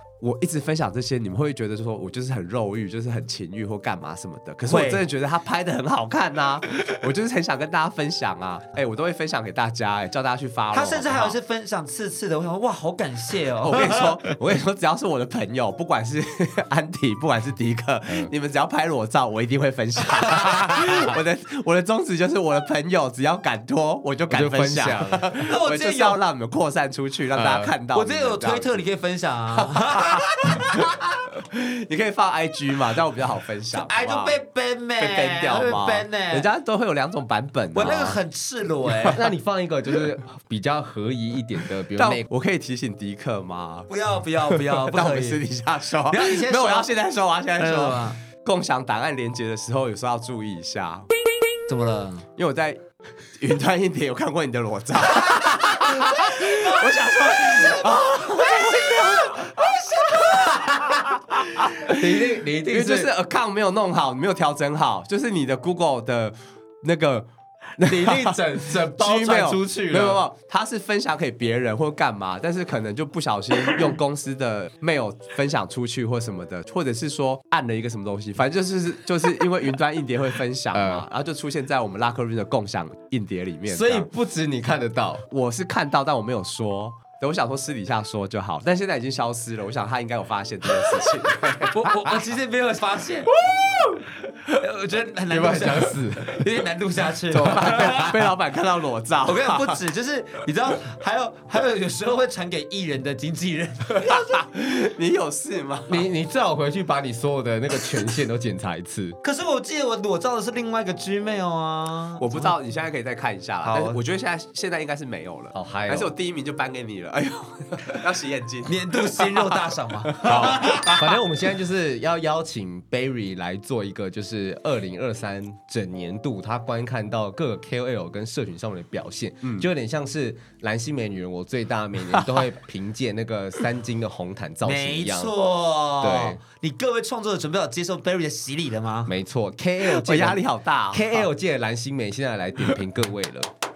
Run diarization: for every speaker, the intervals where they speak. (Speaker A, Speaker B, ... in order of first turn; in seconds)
Speaker A: 0.2-11.3, 13.6-28.8, 29.6-30.4, 31.4-34.4, 35.0-38.2, 38.8-39.1, 42.0-43.9, 44.5-51.1, 52.4-52.8, 53.4-84.1, 85.3-91.9, 97.3-99.8, 104.0-106.1, 112.2-121.1, 129.4-129.7, 132.1-132.4, 139.8-141.3
Speaker B: 4.7-5.0, 10.7-14.3, 20.3-21.1, 25.4-26.2, 27.9-31.2, 33.7-36.5, 37.7-39.2, 43.9-45.4, 46.0-46.9, 47.6-48.2, 51.7-52.2, 55.9-61.2, 91.6-93.4, 94.4-98.2, 99.2-104.3, 109.2-112.5, 113.6-114.0, 118.7-121.1, 134.6-139.1
Speaker C: 18.1-18.3, 24.3-25.3, 27.3-27.7, 39.1-42.2, 61.9-63.1, 67.8-70.2, 80.7-81.1, 83.7-85.2, 93.5-94.0, 95.3-96.4, 97.6-97.9, 105.9-109.2, 115.5-116.1, 120.3-135.3, 136.0-136.4, 139.1-143.5